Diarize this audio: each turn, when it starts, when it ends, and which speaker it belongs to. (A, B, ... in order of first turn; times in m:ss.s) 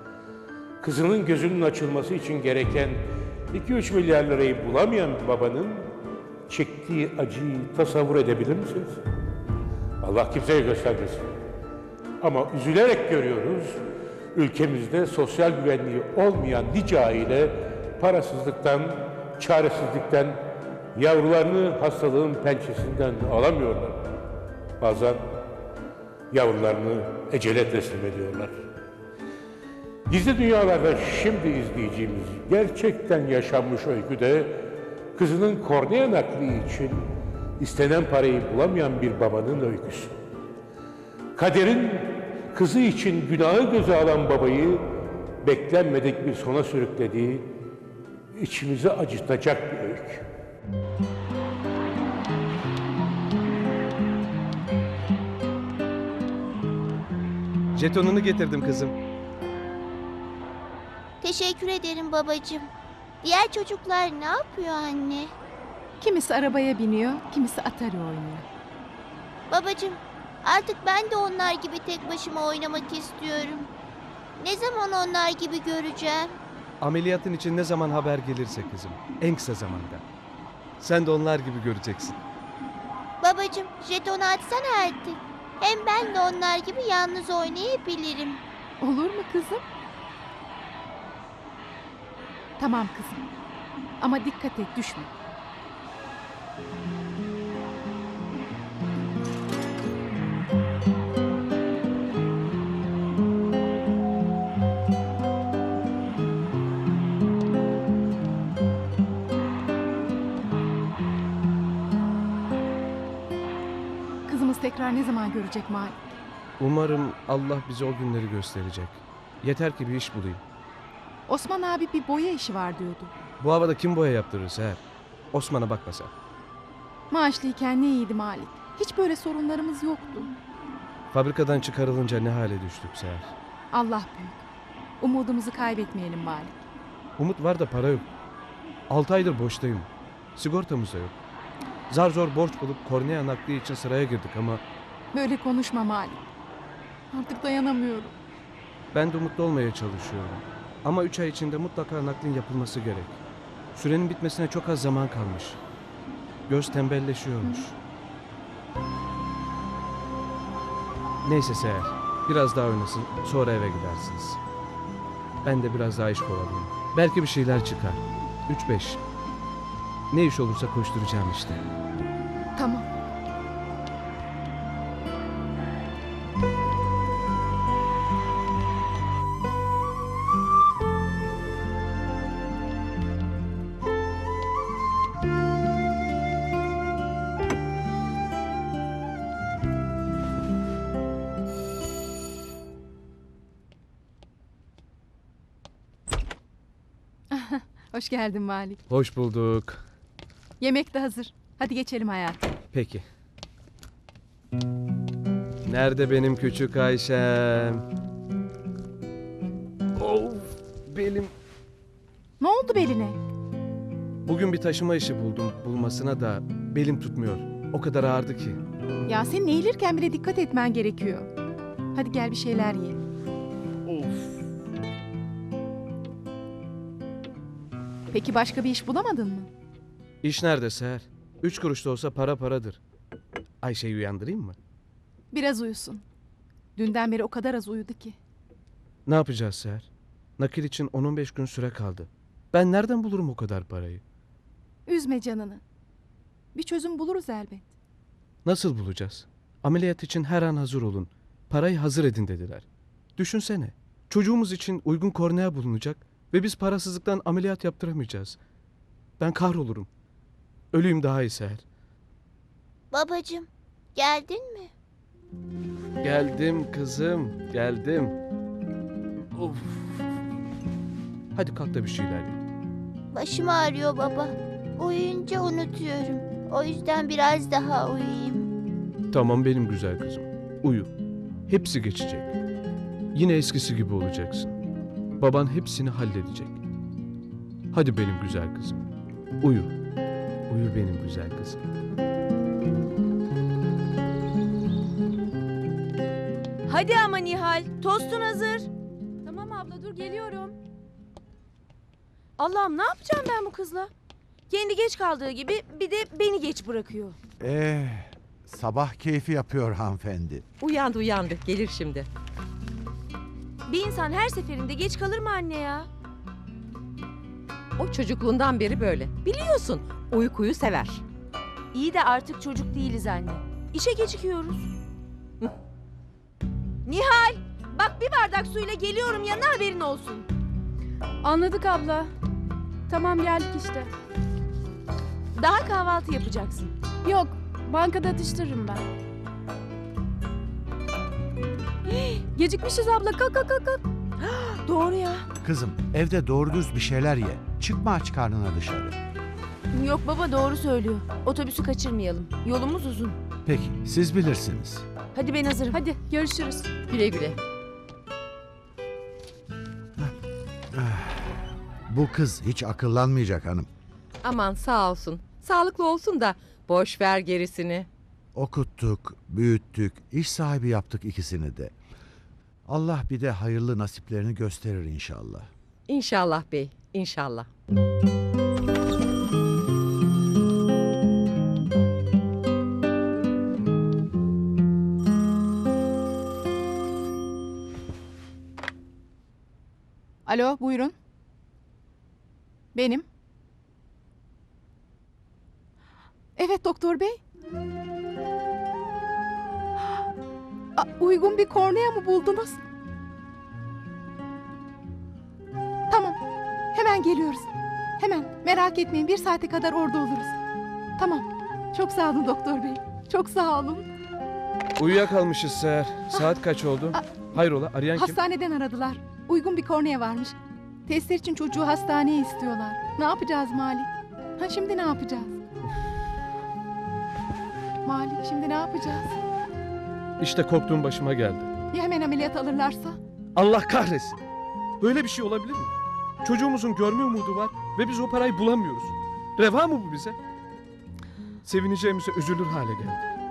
0:00.8-0:05.9 A
0:06.5-0:09.0 A
0:10.0-0:11.3 A
0:12.2-0:13.8 A
0:14.3-0:20.4 A
0:20.9-0:24.0 A
0:24.8-0:25.3 A
0:26.3-0:28.6 A
0:30.1-0:40.1 A
0:41.4-0:44.8 A
0:45.4-0:47.5 A
0:48.3-0:50.2 A
0:57.7-0:58.9 B
1:01.2-1:02.7 C
1:03.2-1:05.3 C
1:06.0-1:08.4 D
1:09.5-1:13.7 C
1:14.4-1:16.4 C
1:16.8-1:20.0 B
1:20.8-1:22.2 B
1:23.2-1:28.4 C
1:28.8-1:29.6 D
1:32.6-1:33.3 D
1:34.0-1:35.1 D
1:54.3-1:56.0 D
1:56.6-2:00.4 B
2:01.3-2:03.1 D
2:03.4-2:06.1 B
2:07.1-2:10.3 D
2:11.1-2:13.3 B
2:13.7-2:14.4 D
2:15.0-2:16.6 D
2:17.2-2:18.1 B
2:18.9-2:21.1 B
2:21.9-2:24.6 B
2:25.1-2:26.2 D
2:27.1-2:28.2 D
2:28.9-2:33.2 B
2:33.7-2:35.6 B
2:36.5-2:37.8 B
2:41.2-2:44.4 B
2:45.4-2:49.0 B
2:50.1-2:51.6 B
2:52.6-2:52.8 D
3:17.3-3:18.8 D
3:18.9-3:19.8 B
3:20.6-3:22.5 D
3:22.7-3:23.0 B
3:25.6-3:27.8 B
3:30.0-3:31.3 B
3:32.4-3:33.2 D
3:34.2-3:38.6 B
3:39.0-3:41.3 D
3:41.9-3:43.0 D
3:43.9-3:44.2 B
3:48.1-3:49.5 D
3:50.2-3:52.8 B
3:53.6-3:54.6 B
3:55.3-3:56.0 D
3:56.8-3:58.2 D
3:59.0-4:04.0 B
4:04.8-4:05.6 D
4:06.5-4:07.7 D
4:08.4-4:12.6 B
4:13.2-4:18.4 B
4:19.2-4:19.9 B
4:20.7-4:21.6 B
4:22.9-4:24.7 C
4:26.0-4:28.2 B
4:29.4-4:29.8 B
4:31.3-4:32.4 B
4:33.1-4:38.5 C
4:39.1-4:40.9 B
4:41.5-4:42.3 B
4:43.1-4:44.6 B
4:45.2-4:46.6 B
4:47.7-4:48.8 B
4:49.4-4:49.7 B
4:50.5-4:51.6 B
4:56.7-4:58.7 E
4:59.2-5:00.5 F
5:02.4-5:03.9 E
5:04.5-5:07.2 E
5:07.4-5:10.4 G
5:10.6-5:12.1 H
5:13.7-5:15.9 E
5:17.8-5:21.0 H
5:21.7-5:24.7 E
5:26.8-5:30.3 E
5:31.2-5:32.1 F
5:32.9-5:33.9 F
5:35.3-5:36.7 E
5:37.0-5:38.8 F
5:41.9-5:42.2 E
5:42.3-5:43.8 F
5:44.2-5:45.2 E
5:45.4-5:49.0 G
5:49.7-5:53.2 E
5:53.4-5:54.8 G
5:55.1-5:56.7 E
5:55.7-5:56.0 D
5:56.1-5:56.6 F
5:56.9-5:57.4 H
6:00.7-6:03.7 G
6:04.2-6:07.9 H
6:08.3-6:11.7 G
6:12.7-6:15.5 G
6:15.9-6:17.5 H
6:30.2-6:30.9 D
6:32.7-6:33.0 D
6:36.4-6:37.2 D
6:40.8-6:42.6 D
6:45.9-6:46.2 D
6:46.7-6:50.4 D
6:51.0-6:53.8 D
6:54.8-6:58.2 B
6:57.9-7:05.4 D
7:07.8-7:09.2 D
7:10.2-7:11.5 B
7:11.7-7:13.0 D
7:13.3-7:14.2 B
7:14.8-7:20.2 B
7:21.4-7:23.1 B